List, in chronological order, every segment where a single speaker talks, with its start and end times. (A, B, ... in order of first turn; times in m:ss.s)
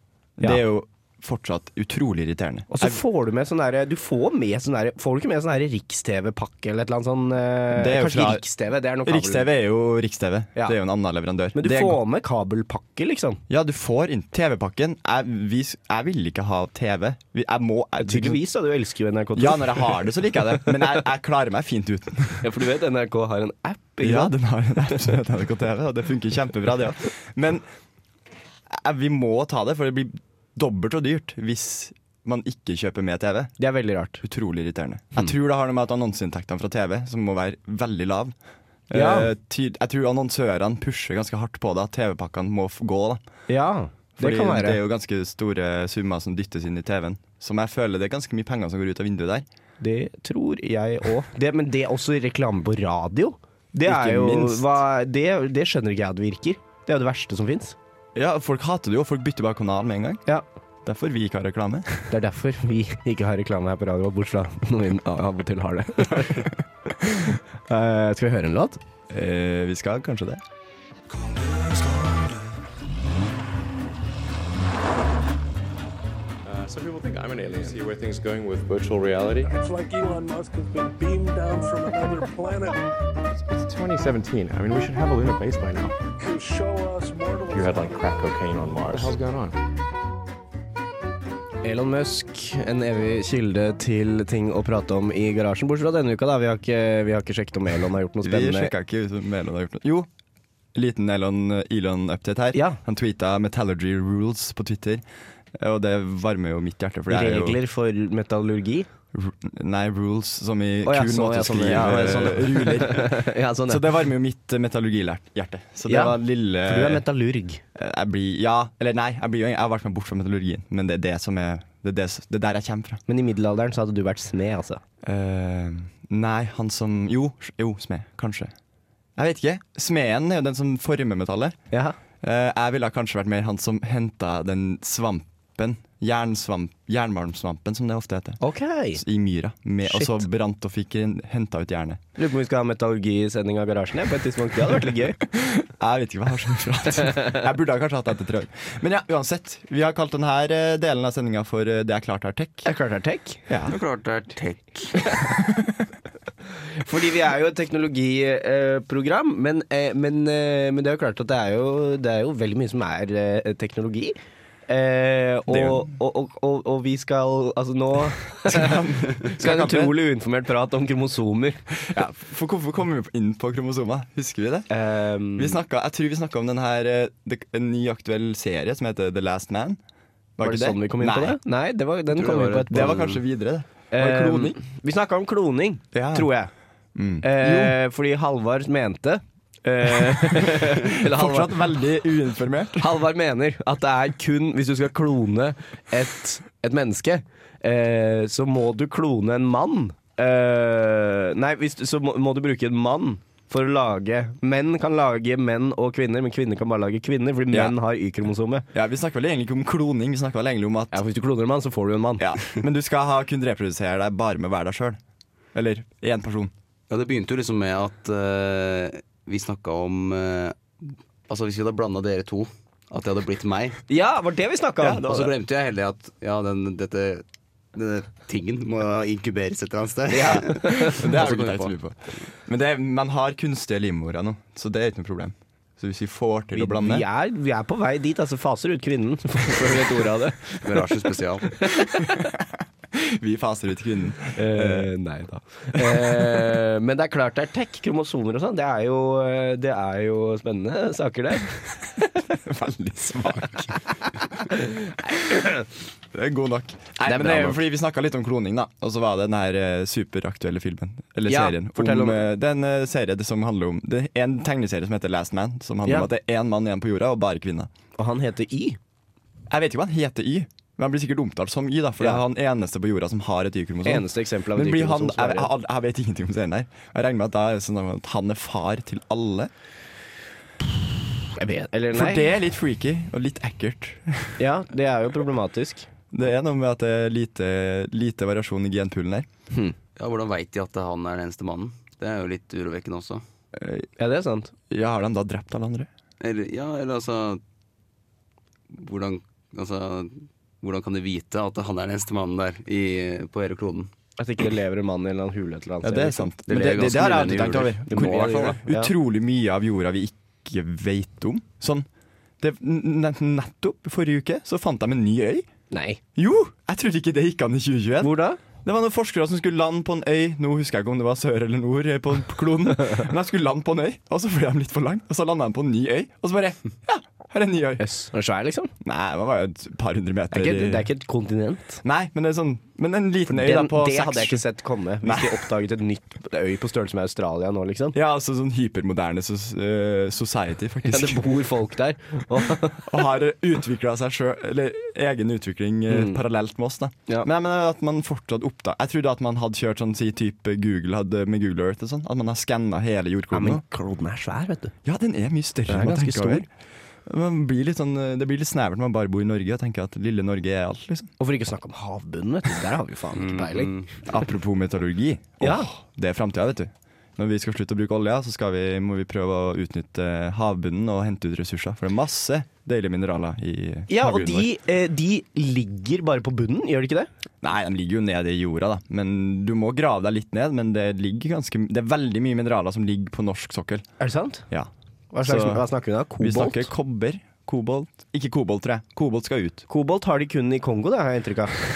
0:00.4-0:03.0 A
0:02.7-0:09.5 B
0:07.7-0:08.4 A
0:09.0-0:12.0 A
0:11.5-0:13.4 B
0:13.5-0:18.4 A
0:18.0-0:20.6 B
0:19.4-0:22.5 A
0:22.4-0:24.3 B
0:24.0-0:27.6 A
0:28.7-0:33.5 A
0:33.6-0:34.2 B
0:34.2-0:38.3 A
0:38.9-0:43.2 A
0:38.9-0:39.3 B
0:43.5-0:44.8 B
0:44.2-0:49.5 A
0:49.8-0:57.8 B
0:53.8-0:54.8 A
0:58.1-1:00.2 A
1:00.8-1:02.1 A
1:02.1-1:08.8 B
1:06.1-1:06.5 A
1:09.1-1:10.4 A
1:11.1-1:12.5 A
1:16.4-1:19.6 C
1:19.6-1:22.8 D
1:23.5-1:26.0 C
1:26.2-1:27.6 D
1:27.5-1:29.6 C
1:31.6-1:38.7 B
1:38.2-1:40.1 A
1:40.7-1:45.0 A
1:42.5-1:42.8 B
1:45.5-1:47.6 A
1:47.1-1:48.9 B
1:49.1-1:57.0 A
1:50.8-1:53.8 B
1:55.9-1:57.6 B
1:57.7-2:03.0 A
2:03.1-2:04.8 B
2:05.0-2:08.5 A
2:09.2-2:11.6 A
2:11.7-2:12.0 B
2:12.2-2:18.4 A
2:18.4-2:19.0 B
2:18.9-2:22.0 A
2:19.8-2:20.2 B
2:22.2-2:25.2 B
2:25.3-2:32.7 A
2:32.6-2:33.4 B
2:33.5-2:33.8 A
2:33.7-2:35.0 E
2:35.3-2:35.8 A
2:36.8-2:44.1 B
2:44.7-2:51.6 B
2:45.5-2:45.9 A
2:48.4-2:49.9 A
2:51.8-2:54.7 A
2:54.7-2:55.6 B
2:55.4-2:59.8 A
3:00.4-3:01.4 A
3:00.4-3:03.1 B
3:02.1-3:03.2 E
3:02.7-3:04.6 A
3:03.9-3:06.5 B
3:05.9-3:06.3 A
3:06.9-3:07.8 A
3:07.2-3:11.7 B
3:10.5-3:12.9 A
3:12.8-3:28.7 B
3:28.7-3:31.0 A
3:30.9-3:32.3 B
3:32.2-3:35.0 A
3:35.5-3:36.5 A
3:36.9-3:43.8 E
3:43.9-3:45.3 B
3:45.0-3:51.7 E
3:50.1-3:51.0 B
3:50.2-3:57.0 A
3:56.5-4:00.8 B
4:00.6-4:01.6 E
4:01.6-4:02.3 B
4:02.1-4:04.9 A
4:04.3-4:12.2 B
4:05.7-4:06.5 A
4:12.3-4:13.8 A
4:14.5-4:15.6 B
4:16.1-4:27.7 A
4:17.0-4:17.6 B
4:21.3-4:22.2 B
4:28.0-4:28.8 B
4:29.5-4:39.5 A
4:33.8-4:35.5 B
4:41.4-4:42.2 B
4:41.9-4:44.4 A
4:44.4-4:45.9 B
4:46.1-4:49.3 A
4:50.0-4:53.2 E
4:53.6-4:53.9 A
4:54.0-4:54.5 B
4:54.7-4:55.9 A
4:56.2-4:57.4 E
4:58.7-5:03.9 E
5:04.2-5:08.9 B
5:05.8-5:11.9 A
5:06.5-5:08.5 E
5:12.4-5:15.5 A
5:15.7-5:16.0 B
5:16.1-5:27.9 A
5:18.0-5:18.4 B
5:27.8-5:28.7 B
5:28.8-5:30.9 A
5:30.3-5:31.8 B
5:31.8-5:34.4 A
5:33.3-5:37.9 B
5:35.0-5:35.5 A
5:37.9-5:41.3 A
5:40.8-5:42.9 B
5:42.6-5:53.6 A
5:45.9-5:46.2 B
5:53.3-5:54.7 B
5:54.8-5:56.5 A
5:55.7-5:56.4 B
5:57.0-6:01.1 A
6:01.2-6:03.7 B
6:03.1-6:03.9 E
6:04.0-6:14.5 A
6:05.4-6:05.7 B
6:13.9-6:17.1 B
6:17.4-6:23.9 A
6:24.0-6:24.4 B
6:25.1-6:26.7 B
6:25.2-6:25.6 A
6:26.2-6:29.6 A
6:29.7-6:31.6 B